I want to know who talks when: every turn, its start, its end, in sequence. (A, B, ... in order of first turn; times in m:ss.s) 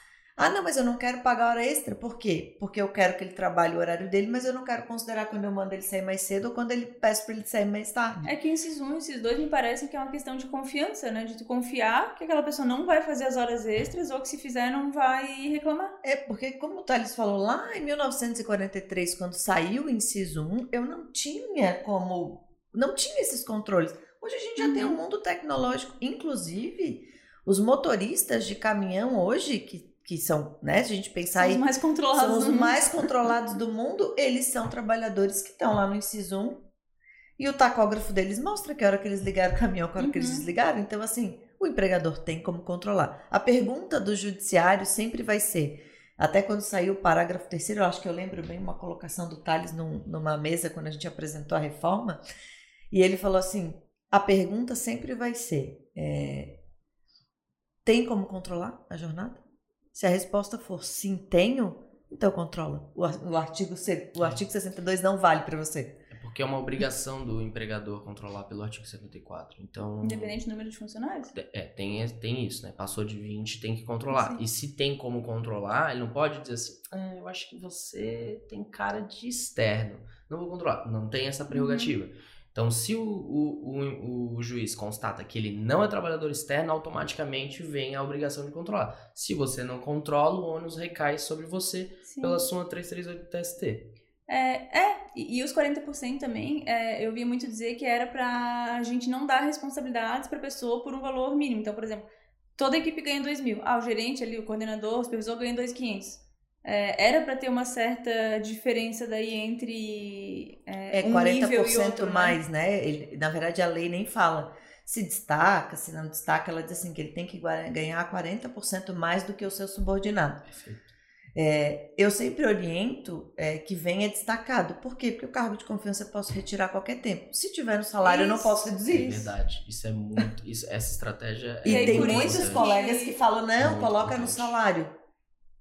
0:00.4-0:08.2 A
0:08.2-0:15.9 B
0:16.0-0:36.6 A
0:24.6-0:25.0 B
0:31.3-0:33.1 B
0:37.4-0:52.2 A
0:40.0-0:40.4 B
0:52.9-0:56.6 A
0:57.8-0:59.4 A
0:59.9-1:06.0 A
1:06.1-1:10.4 C
1:10.0-1:11.3 B
1:11.3-1:33.9 C
1:14.1-1:14.4 B
1:21.5-1:21.9 B
1:32.1-1:32.4 B
1:34.3-1:42.0 B
1:42.6-1:52.4 B
1:50.9-2:00.4 A
2:00.5-2:00.9 C
2:01.4-2:09.3 A
2:08.0-2:08.7 B
2:08.8-2:12.7 C
2:11.6-2:14.9 A
2:11.6-2:13.2 B
2:13.6-2:14.6 C